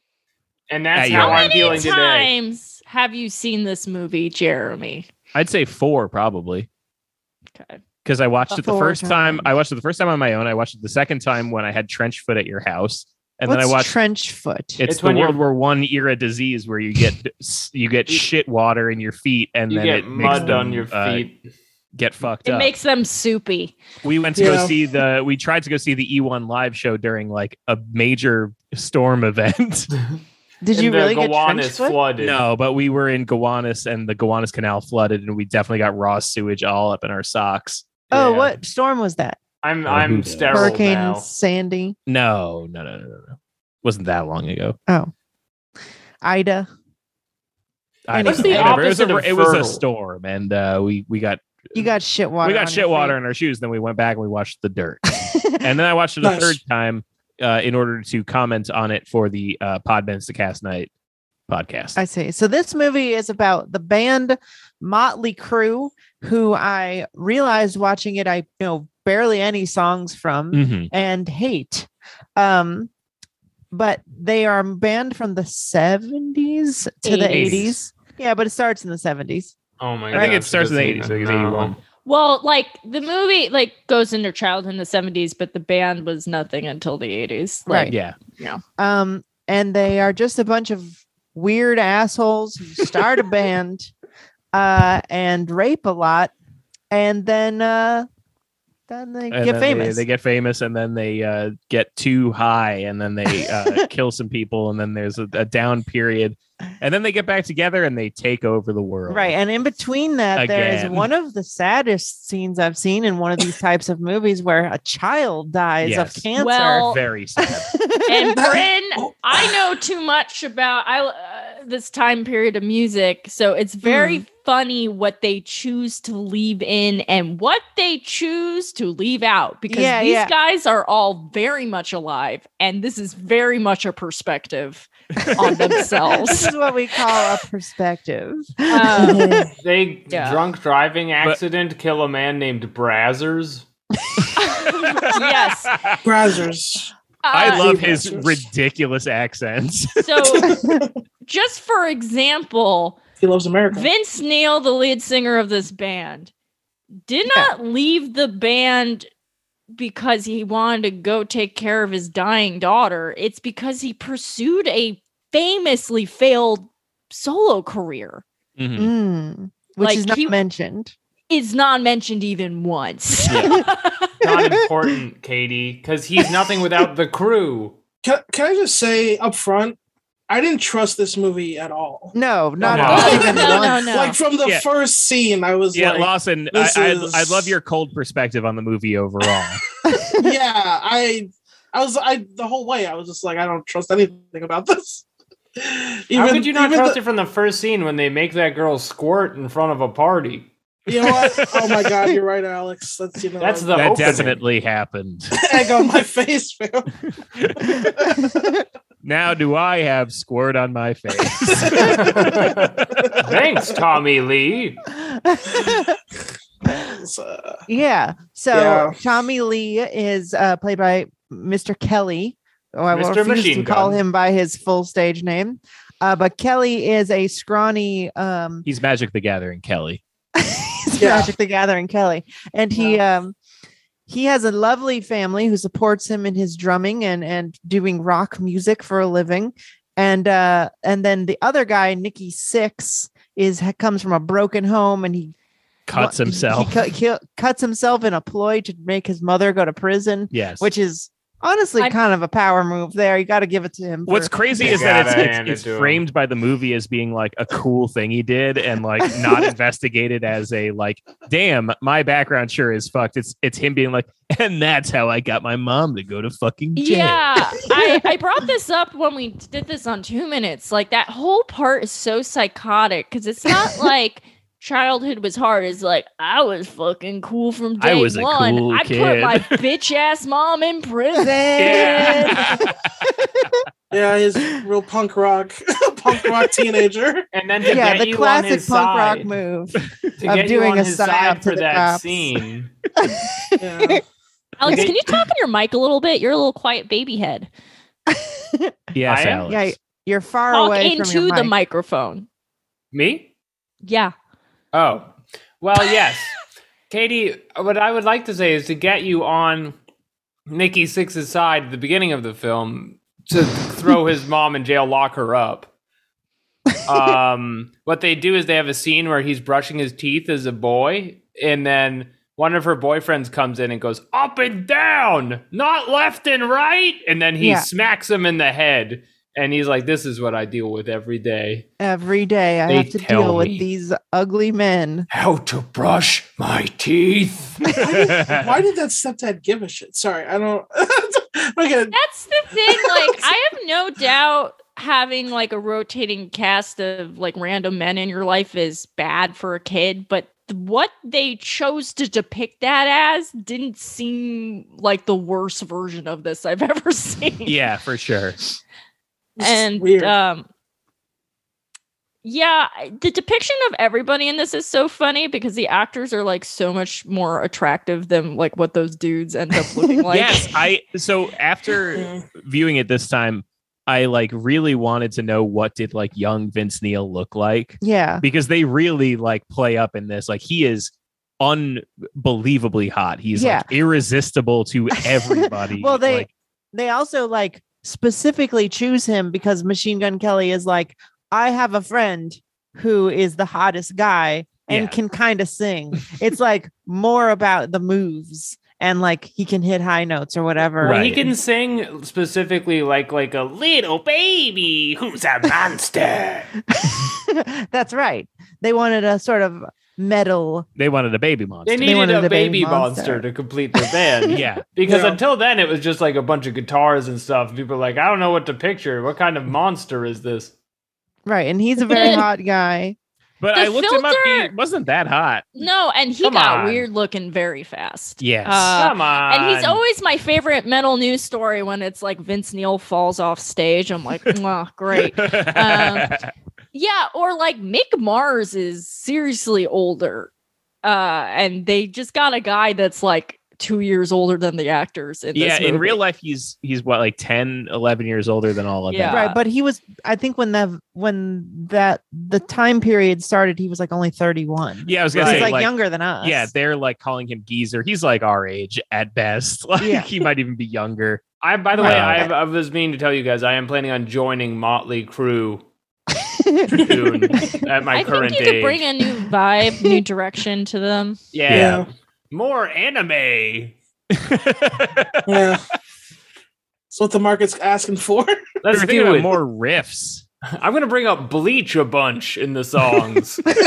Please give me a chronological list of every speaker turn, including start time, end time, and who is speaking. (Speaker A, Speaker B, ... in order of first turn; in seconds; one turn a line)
Speaker A: 0.7-2.3
Speaker B: 0.9-1.9
Speaker C: 1.1-5.1
Speaker B: 5.3-6.7
Speaker C: 7.5-7.8
Speaker B: 8.0-13.9
Speaker D: 8.6-9.5
Speaker D: 13.5-14.8
Speaker B: 14.8-21.2
Speaker A: 14.8-15.4
Speaker A: 19.7-21.4
Speaker E: 20.2-20.6
Speaker B: 21.9-22.7
Speaker C: 22.4-23.8
Speaker B: 24.0-29.9
Speaker E: 24.4-24.7
Speaker D: 30.6-32.0
Speaker A: 30.7-32.4
Speaker B: 32.2-38.0
Speaker A: 38.1-38.5
Speaker D: 38.1-39.4
Speaker A: 39.6-41.3
Speaker B: 39.9-40.8
Speaker D: 40.5-42.0
Speaker B: 42.1-44.8
Speaker D: 46.2-46.7
Speaker B: 48.1-51.9
Speaker D: 48.1-48.8
Speaker A: 48.2-49.8
Speaker D: 51.7-53.1
Speaker B: 52.4-60.9
Speaker D: 55.1-55.7
Speaker E: 56.2-56.6
Speaker B: 61.5-62.0
Speaker D: 62.0-72.9
Speaker B: 70.5-70.9
Speaker D: 73.7-79.5
Speaker C: 77.0-77.6
Speaker B: 77.3-77.7
Speaker A: 79.8-81.7
Speaker B: 80.1-81.8
Speaker C: 82.0-88.6
Speaker D: 87.7-87.9
Speaker B: 87.9-88.2
Speaker D: 88.8-93.9
Speaker D: 94.5-96.3
Speaker D: 96.9-98.1
Speaker D: 98.9-100.0
Speaker B: 99.3-109.3
Speaker D: 103.4-103.8
Speaker D: 109.1-118.4
Speaker B: 110.3-111.1
Speaker B: 115.8-116.2
Speaker C: 116.3-117.0
Speaker B: 116.8-117.7
Speaker C: 118.0-136.6
Speaker E: 118.3-119.6
Speaker D: 123.8-124.2
Speaker D: 129.7-130.3
Speaker B: 135.2-135.5
Speaker D: 135.8-139.4
Speaker C: 138.7-139.3
Speaker E: 138.9-139.5
Speaker A: 139.6-143.7
Speaker C: 140.1-140.4
Speaker C: 144.3-145.7
Speaker B: 144.6-146.1
Speaker E: 146.0-146.9
Speaker C: 147.2-147.7
Speaker B: 147.3-150.1
Speaker E: 147.4-148.4
Speaker C: 150.0-150.6
Speaker E: 150.2-150.9
Speaker C: 151.2-153.0
Speaker E: 153.2-153.9
Speaker C: 153.7-156.3
Speaker C: 157.1-159.1
Speaker C: 159.7-168.2
Speaker B: 168.6-168.9
Speaker D: 168.8-170.9
Speaker C: 169.8-170.3
Speaker C: 171.3-174.1
Speaker B: 173.3-173.6
Speaker A: 174.2-177.8
Speaker E: 178.0-179.8
Speaker E: 180.3-187.5
Speaker D: 182.1-183.9
Speaker A: 182.6-183.2
Speaker B: 182.7-183.3
Speaker C: 182.9-184.2
Speaker B: 185.7-189.6
Speaker E: 189.2-189.6
Speaker D: 189.9-190.3
Speaker E: 190.2-195.0
Speaker E: 195.6-197.0
Speaker A: 196.1-200.5
Speaker E: 200.9-204.3
Speaker B: 200.9-202.0
Speaker A: 203.4-204.4
Speaker B: 203.7-205.3
Speaker E: 205.3-206.9
Speaker B: 207.4-207.8
Speaker D: 207.8-208.6
Speaker B: 209.0-212.5
Speaker A: 211.8-214.8
Speaker E: 211.9-213.5
Speaker D: 214.9-216.0
Speaker E: 215.5-215.8
Speaker E: 216.7-217.6
Speaker D: 217.7-228.6
Speaker E: 218.5-219.0
Speaker A: 222.9-224.0
Speaker B: 228.6-230.0
Speaker D: 230.4-233.3
Speaker E: 231.0-231.3
Speaker D: 234.1-245.3
Speaker B: 245.8-246.8
Speaker D: 245.9-254.9
Speaker B: 250.3-250.7
Speaker B: 254.1-267.6
Speaker A: 254.5-256.0
Speaker C: 266.7-282.4
Speaker B: 277.8-279.6
Speaker D: 281.1-282.5
Speaker B: 281.6-283.1
Speaker E: 283.9-287.3
Speaker A: 287.3-289.3
Speaker D: 287.7-292.3
Speaker A: 290.2-292.7
Speaker D: 293.0-294.0
Speaker E: 293.6-294.0
Speaker C: 294.6-297.5
Speaker A: 294.7-294.9
Speaker D: 298.1-298.8
Speaker B: 298.9-299.8
Speaker A: 299.1-299.4
Speaker D: 299.5-301.5
Speaker C: 300.5-302.3
Speaker A: 302.9-303.3
Speaker C: 303.8-304.1
Speaker A: 304.7-306.4
Speaker A: 306.9-309.8
Speaker A: 310.5-315.7
Speaker A: 316.8-331.7
Speaker D: 327.4-327.7
Speaker D: 331.8-335.1
Speaker A: 332.7-333.6
Speaker A: 335.1-337.9
Speaker B: 337.7-338.5
Speaker E: 337.8-341.9
Speaker C: 341.9-357.6
Speaker E: 342.7-343.3
Speaker B: 357.4-358.4
Speaker E: 359.4-360.1
Speaker C: 359.4-360.5
Speaker C: 362.2-370.5
Speaker B: 370.1-386.3
Speaker E: 371.9-372.2
Speaker D: 377.8-378.2
Speaker D: 383.4-383.7
Speaker D: 385.0-401.0
Speaker B: 394.7-394.9
Speaker A: 400.8-406.5
Speaker B: 400.8-401.3
Speaker D: 406.7-410.7
Speaker B: 410.8-411.9
Speaker A: 411.6-420.5
Speaker D: 411.8-413.2
Speaker D: 413.8-414.4
Speaker B: 414.3-414.7
Speaker E: 414.9-415.2
Speaker D: 421.2-423.0
Speaker C: 421.9-422.2
Speaker B: 423.4-425.6
Speaker C: 423.5-424.5
Speaker C: 425.6-436.1
Speaker A: 426.2-426.9
Speaker B: 428.2-428.8
Speaker A: 428.7-429.8
Speaker B: 434.9-436.3
Speaker C: 436.7-440.3
Speaker C: 440.8-446.0
Speaker B: 445.3-449.3
Speaker C: 448.9-449.4
Speaker D: 449.1-456.5
Speaker B: 454.8-461.2
Speaker A: 455.1-455.5
Speaker D: 459.8-460.1
Speaker A: 461.4-465.6
Speaker B: 461.8-462.2
Speaker D: 461.8-462.3
Speaker D: 466.1-466.9
Speaker A: 466.7-468.8
Speaker E: 466.8-467.6
Speaker C: 467.9-471.2
Speaker A: 471.3-473.8
Speaker B: 471.5-471.8
Speaker E: 471.5-471.8
Speaker B: 474.1-475.4
Speaker E: 475.2-475.6
Speaker E: 476.9-478.4
Speaker A: 478.6-479.4
Speaker B: 478.7-480.2
Speaker A: 480.5-483.5